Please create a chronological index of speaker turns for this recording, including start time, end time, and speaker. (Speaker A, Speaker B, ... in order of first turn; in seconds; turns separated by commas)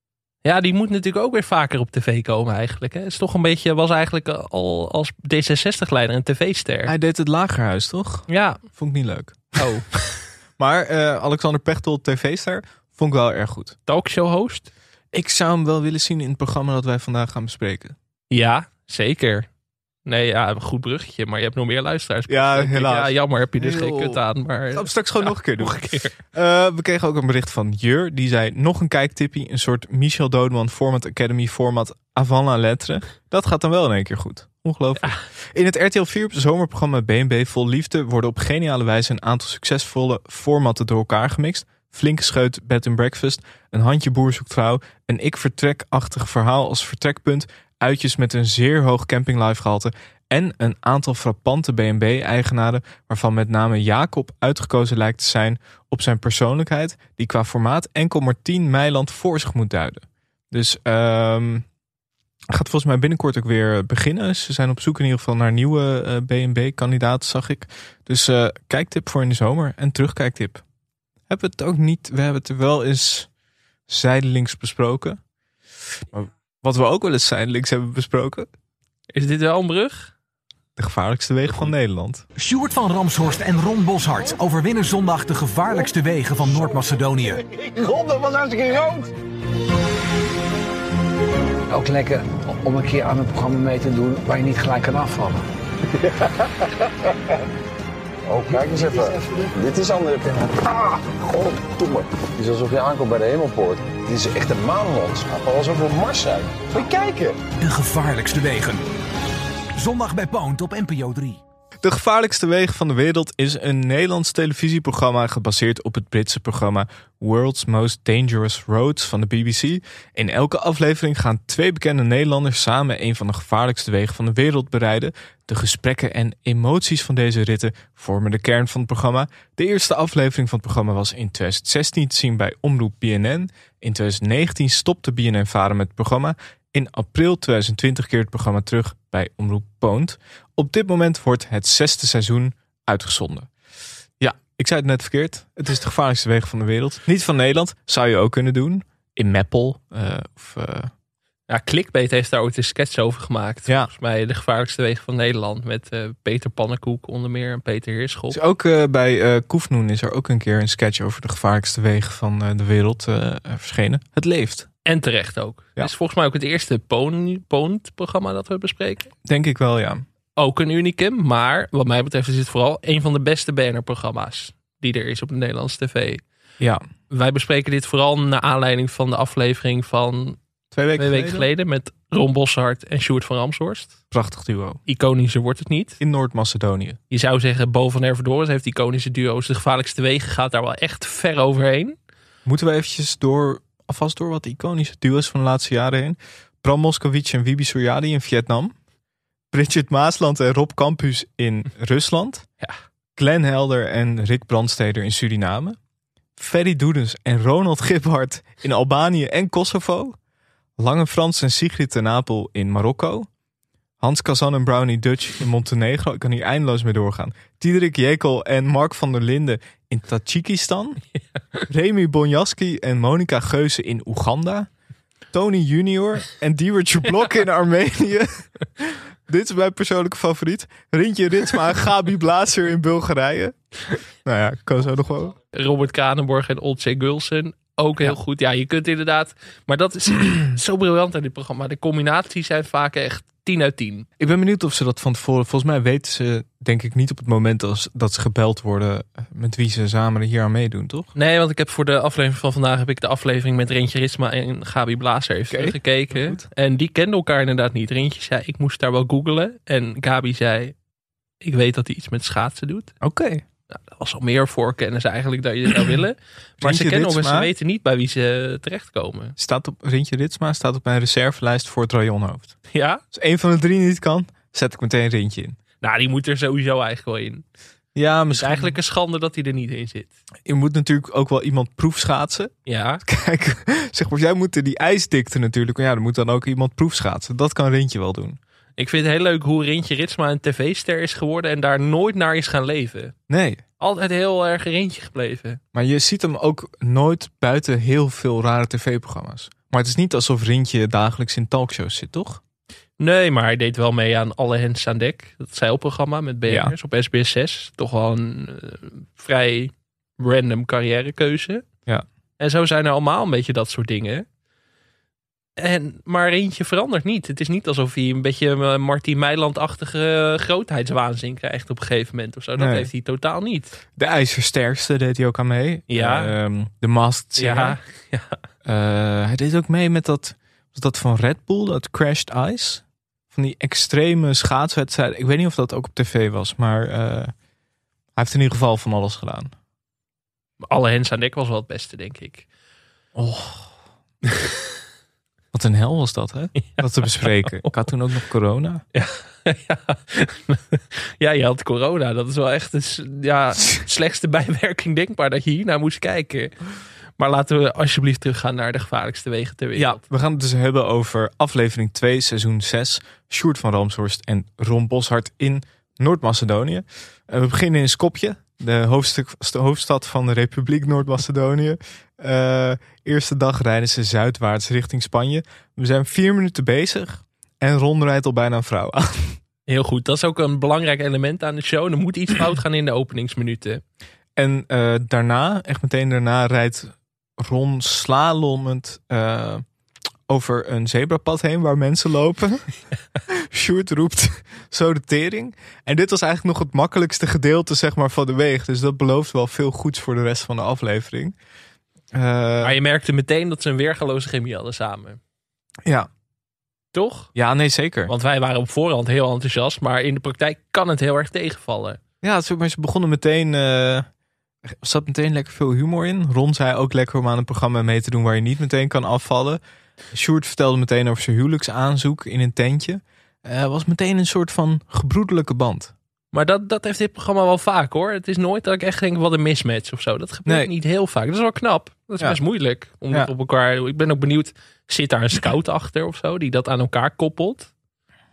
Speaker A: 0.4-6.9, Speaker B: 6.8-9.7, Speaker A: 8.3-8.6, Speaker A: 9.6-10.0, Speaker B: 10.6-13.8, Speaker A: 13.9-14.7, Speaker B: 15.1-17.9, Speaker A: 18.3-19.5, Speaker A: 20.1-26.1, Speaker B: 22.3-24.2, Speaker B: 24.7-25.8, Speaker B: 26.3-61.6, Speaker B: 62.5-70.6, Speaker B: 71.3-73.3, Speaker B: 73.9-75.2, Speaker B: 76.1-78.5, Speaker A: 79.1-80.1, Speaker B: 80.8-82.2, Speaker C: 82.3-87.4, Speaker D: 87.7-89.1, Speaker E: 91.7-95.4, Speaker D: 98.3-107.4, Speaker C: 107.6-108.8, Speaker C: 109.8-111.4, Speaker B: 111.8-143.5, Speaker B: 144.2-150.9, Speaker A: 151.5-158.4, Speaker B: 158.3-164.7, Speaker A: 164.8-169.1, Speaker B: 169.2-170.0, Speaker A: 170.4-176.2, Speaker A: 177.1-180.4, Speaker B: 180.7-181.4, Speaker A: 180.9-184.0, Speaker B: 184.1-184.8, Speaker A: 184.9-186.0, Speaker B: 186.0-187.0, Speaker A: 187.1-191.9, Speaker B: 192.4-198.7, Speaker B: 199.5-202.4, Speaker B: 203.2-205.8, Speaker B: 206.4-210.2, Speaker B: 210.8-213.3, Speaker B: 214.0-221.0, Speaker B: 221.7-224.7, Speaker B: 225.3-233.6, Speaker B: 234.2-235.3, Speaker A: 235.5-244.1, Speaker B: 244.2-251.1, Speaker A: 251.2-260.7, Speaker B: 255.5-256.4, Speaker A: 261.4-262.9, Speaker B: 263.0-263.4, Speaker A: 263.7-269.4, Speaker B: 266.6-267.5, Speaker B: 269.4-272.5, Speaker A: 272.7-273.0, Speaker B: 273.1-275.6, Speaker A: 275.8-277.4, Speaker B: 277.9-278.8, Speaker A: 278.3-280.1, Speaker B: 280.4-288.4, Speaker A: 282.6-283.0, Speaker A: 288.8-293.1, Speaker B: 293.3-293.6, Speaker A: 293.8-295.6, Speaker B: 295.7-302.4, Speaker A: 303.0-311.6, Speaker B: 306.5-306.7, Speaker A: 312.4-314.2, Speaker A: 315.6-323.8, Speaker B: 322.6-322.9, Speaker B: 323.9-327.8, Speaker A: 325.9-326.3, Speaker A: 327.4-328.4, Speaker B: 328.6-337.3, Speaker B: 338.1-339.5, Speaker A: 340.6-342.4, Speaker B: 343.1-343.7, Speaker B: 345.5-348.8, Speaker A: 346.7-347.7, Speaker A: 348.9-356.5, Speaker A: 357.2-360.0, Speaker B: 359.8-379.4, Speaker A: 379.7-383.8, Speaker B: 384.4-389.6, Speaker B: 390.3-392.6, Speaker B: 393.3-401.3, Speaker B: 402.1-402.8, Speaker A: 402.6-405.2, Speaker A: 406.9-407.3, Speaker B: 407.4-408.1, Speaker A: 408.1-412.0, Speaker B: 412.2-414.1, Speaker B: 414.7-419.6, Speaker B: 420.1-425.9, Speaker A: 426.3-437.7